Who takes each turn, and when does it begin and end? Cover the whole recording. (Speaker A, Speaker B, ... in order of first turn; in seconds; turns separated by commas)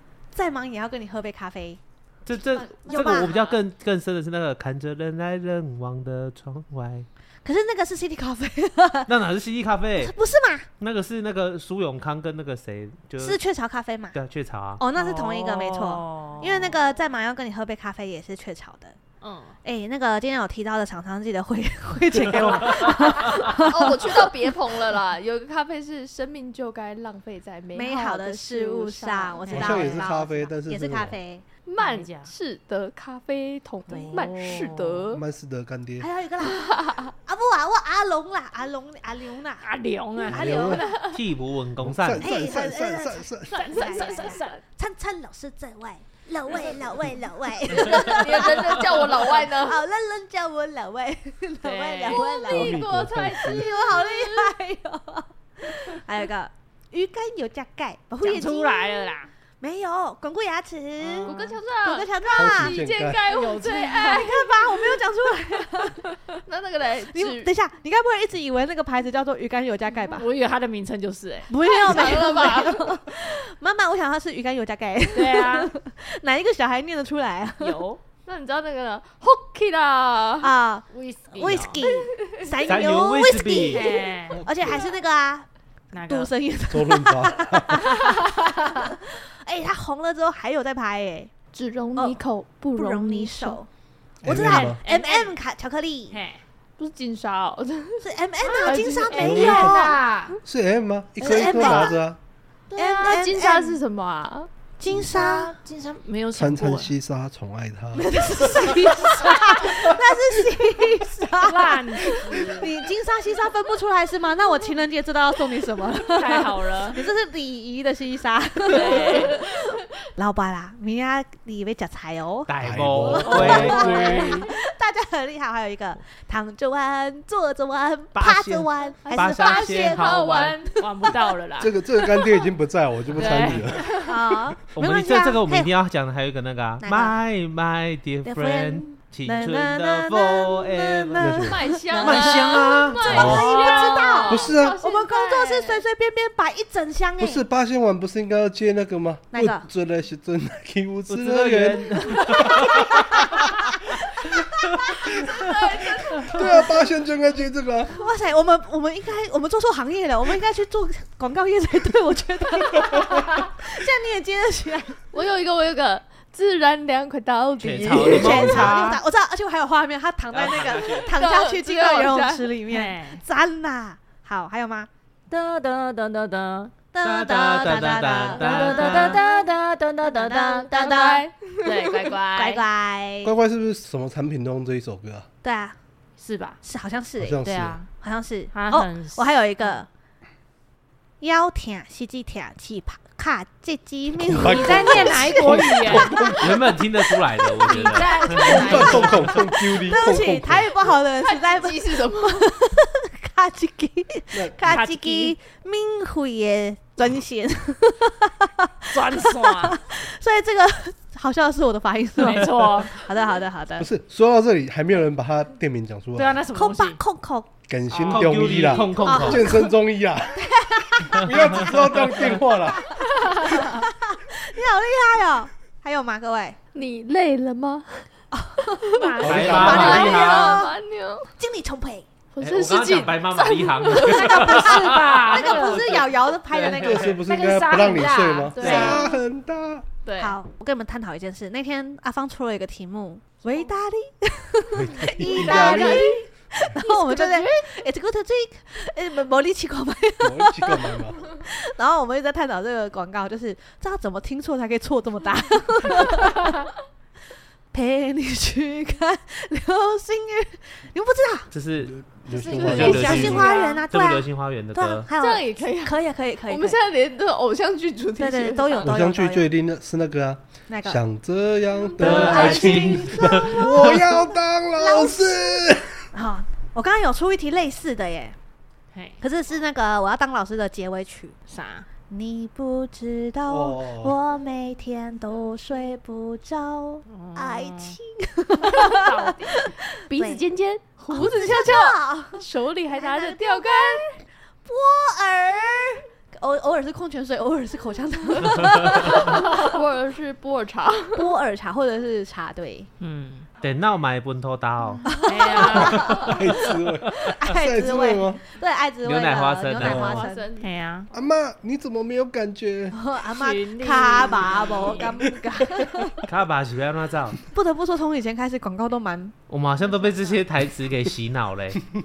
Speaker A: 0.3-1.8, Speaker B: 2.2-7.1, Speaker A: 2.6-3.4, Speaker C: 2.9-3.5, Speaker A: 7.4-9.1, Speaker B: 9.1-10.1, Speaker A: 10.0-10.7, Speaker B: 10.8-13.4, Speaker A: 13.2-14.2, Speaker B: 14.1-14.8, Speaker A: 14.8-18.9, Speaker C: 14.9-16.7, Speaker C: 19.2-19.6, Speaker A: 19.6-24.5, Speaker D: 23.4-29.8, Speaker A: 27.7-31.4, Speaker C: 29.4-30.1, Speaker E: 29.5-31.1, Speaker D: 31.6-35.2, Speaker C: 31.8-32.3, Speaker A: 33.9-34.5, Speaker C: 33.9-35.0, Speaker E: 35.1-36.1, Speaker A: 36.0-41.1, Speaker D: 36.4-37.1, Speaker C: 39.6-40.9, Speaker E: 40.2-40.9, Speaker D: 40.9-41.1, Speaker B: 41.1-42.3, Speaker E: 41.8-43.7, Speaker A: 42.2-52.8, Speaker C: 43.5-44.6, Speaker D: 43.8-44.3, Speaker D: 47.7-49.8, Speaker C: 51.6-52.5, Speaker D: 52.1-54.5, Speaker E: 52.5-53.7, Speaker A: 53.4-62.8, Speaker C: 58.2-59.3, Speaker C: 61.0-61.6, Speaker D: 61.2-64.9, Speaker E: 62.3-63.2, Speaker C: 63.2-64.3, Speaker A: 63.9-66.2, Speaker D: 66.5-67.5, Speaker A: 67.1-70.3, Speaker C: 70.1-71.5, Speaker A: 71.5-77.8, Speaker D: 71.6-72.9, Speaker C: 75.1-75.7, Speaker C: 77.6-78.0, Speaker D: 78.2-80.5, Speaker A: 80.4-85.5, Speaker C: 80.9-81.8, Speaker D: 81.9-82.7, Speaker B: 82.7-84.0, Speaker C: 83.7-84.4, Speaker E: 84.3-84.8, Speaker C: 85.9-86.3, Speaker A: 86.0-91.3, Speaker E: 86.7-87.8, Speaker C: 88.0-88.9, Speaker D: 91.5-93.6, Speaker A: 91.9-92.2, Speaker A: 92.8-93.7, Speaker E: 94.2-94.8, Speaker A: 94.2-96.2, Speaker C: 94.2-95.3, Speaker C: 96.1-96.4, Speaker D: 96.8-98.0, Speaker A: 98.0-100.0, Speaker C: 98.4-100.4, Speaker D: 98.6-99.6, Speaker E: 99.1-99.9, Speaker E: 100.4-102.2, Speaker A: 101.2-102.0, Speaker D: 101.2-101.9, Speaker C: 102.7-103.2, Speaker A: 102.8-103.8, Speaker D: 102.9-104.5, Speaker A: 104.8-105.5, Speaker C: 105.1-106.9, Speaker E: 106.3-108.0, Speaker A: 107.9-119.6, Speaker C: 111.4-112.7, Speaker C: 116.1-117.0, Speaker C: 118.7-119.4, Speaker D: 118.8-119.2, Speaker A: 120.2-122.5, Speaker B: 122.5-124.0, Speaker E: 122.6-124.5, Speaker A: 123.0-130.8, Speaker C: 123.3-124.5, Speaker B: 128.1-130.6, Speaker D: 129.1-130.5, Speaker C: 130.0-131.7, Speaker E: 131.6-134.4, Speaker C: 133.1-133.9, Speaker A: 134.0-135.7, Speaker B: 134.7-141.2, Speaker A: 136.8-137.2, Speaker A: 138.2-142.4, Speaker E: 141.2-141.7, Speaker D: 141.5-145.8, Speaker C: 141.9-144.4, Speaker B: 141.9-143.3, Speaker A: 143.0-147.4, Speaker E: 143.1-143.5, Speaker E: 144.3-144.8, Speaker E: 147.2-152.6, Speaker A: 149.3-149.7, Speaker B: 151.1-152.9, Speaker A: 152.2-156.8, Speaker D: 155.4-155.8, Speaker E: 156.2-158.0, Speaker A: 157.9-165.0, Speaker D: 165.1-168.7, Speaker B: 167.6-169.0, Speaker A: 167.9-174.9, Speaker B: 170.3-171.1, Speaker D: 170.9-172.5, Speaker C: 172.7-173.2, Speaker C: 175.3-176.7, Speaker A: 176.9-179.4, Speaker B: 177.0-179.2, Speaker C: 177.8-182.6, Speaker A: 180.0-181.3, Speaker D: 180.9-182.1, Speaker A: 182.3-183.3, Speaker E: 183.2-185.3, Speaker A: 185.4-185.8, Speaker C: 186.2-186.6, Speaker A: 186.6-187.4, Speaker E: 187.2-187.8, Speaker C: 187.4-187.9, Speaker A: 188.0-189.9, Speaker C: 188.5-189.8, Speaker A: 191.2-196.4, Speaker E: 194.1-196.7, Speaker C: 194.4-196.4, Speaker B: 196.3-199.4, Speaker C: 197.6-199.3, Speaker D: 197.7-199.0, Speaker E: 198.4-200.7, Speaker A: 199.3-213.9, Speaker D: 201.1-202.5, Speaker C: 204.6-205.3, Speaker C: 208.9-209.8, Speaker C: 212.2-213.0, Speaker E: 213.8-216.4, Speaker C: 216.1-217.0, Speaker A: 216.5-217.5, Speaker E: 217.7-222.9, Speaker C: 217.9-219.0, Speaker B: 218.1-219.5, Speaker A: 219.0-219.7, Speaker A: 220.3-221.8, Speaker A: 223.3-226.6, Speaker D: 226.7-228.1, Speaker A: 228.3-230.7, Speaker D: 228.8-231.3, Speaker C: 229.2-229.7, Speaker E: 229.2-230.2, Speaker B: 229.2-230.7, Speaker A: 231.4-232.1, Speaker D: 232.3-234.7, Speaker B: 232.4-237.2, Speaker C: 234.0-236.0, Speaker A: 234.5-237.2, Speaker E: 236.8-239.9, Speaker C: 237.2-239.1, Speaker A: 238.6-239.1, Speaker D: 238.6-239.2, Speaker C: 240.0-240.3, Speaker A: 240.2-256.5, Speaker E: 244.7-246.2, Speaker D: 245.2-246.2, Speaker C: 246.8-247.8, Speaker E: 250.2-251.2, Speaker A: 257.7-261.5, Speaker B: 261.5-261.9, Speaker E: 261.8-263.4, Speaker D: 262.3-263.8, Speaker A: 262.5-266.8, Speaker B: 262.6-265.1, Speaker D: 265.2-266.0, Speaker D: 266.5-268.9, Speaker A: 268.2-269.5, Speaker E: 268.8-276.1, Speaker A: 270.7-271.0, Speaker B: 272.0-274.1, Speaker D: 272.1-272.6, Speaker C: 272.1-272.9, Speaker A: 272.1-273.6, Speaker A: 274.8-275.5, Speaker A: 276.1-278.3, Speaker C: 278.9-279.2, Speaker A: 279.2-281.3, Speaker C: 281.5-281.9, Speaker A: 282.1-290.4, Speaker E: 283.5-284.1, Speaker C: 287.1-288.0, Speaker C: 288.7-289.7, Speaker D: 290.1-294.0, Speaker A: 291.1-299.6, Speaker D: 299.0-301.3, Speaker A: 301.1-302.9, Speaker C: 303.0-303.4, Speaker B: 303.6-305.1, Speaker A: 305.1-306.5, Speaker C: 305.1-306.4, Speaker E: 305.7-308.4, Speaker A: 307.3-310.4, Speaker B: 309.0-310.2, Speaker D: 309.7-310.7, Speaker E: 309.8-310.2, Speaker C: 310.6-311.1, Speaker E: 311.1-313.0, Speaker A: 312.9-316.2, Speaker C: 313.3-315.1, Speaker B: 316.3-317.4, Speaker A: 317.5-319.3, Speaker B: 319.5-321.8